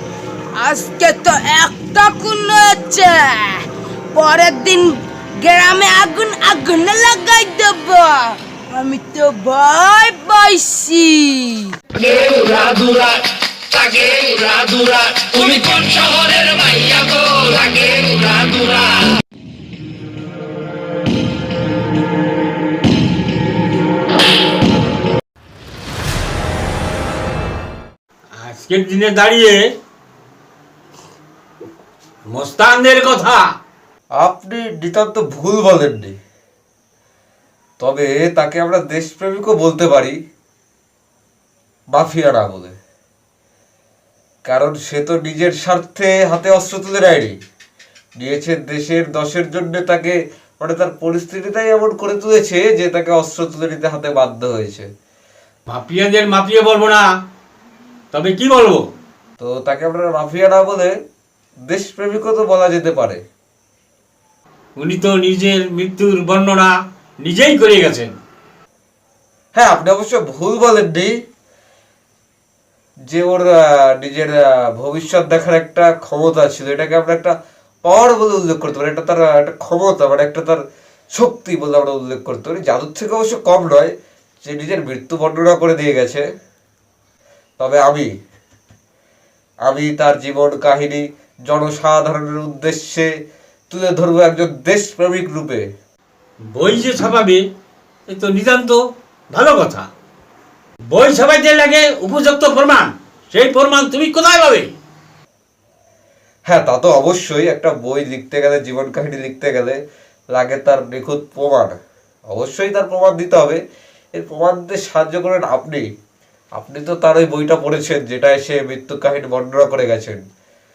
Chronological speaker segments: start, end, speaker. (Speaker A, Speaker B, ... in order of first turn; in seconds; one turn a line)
Speaker A: 0.6-11.8
Speaker B: 12.0-13.2
Speaker B: 13.7-18.7
Speaker C: 28.4-29.6
Speaker C: 32.3-33.5
Speaker D: 34.2-36.2
Speaker D: 37.8-40.2
Speaker D: 41.9-42.8
Speaker D: 44.5-47.4
Speaker D: 48.2-54.9
Speaker C: 55.7-57.1
Speaker C: 58.1-58.8
Speaker D: 59.4-60.9
Speaker D: 61.7-63.2
Speaker C: 64.8-68.2
Speaker D: 69.5-71.1
Speaker D: 73.1-80.6
Speaker D: 81.1-86.3
Speaker D: 87.6-88.1
Speaker D: 89.6-93.1
Speaker D: 93.7-95.6
Speaker C: 96.5-97.4
Speaker C: 98.1-99.9
Speaker C: 100.9-104.7
Speaker D: 106.5-111.8
Speaker D: 112.3-113.6
Speaker D: 114.2-115.8
Speaker D: 116.5-120.2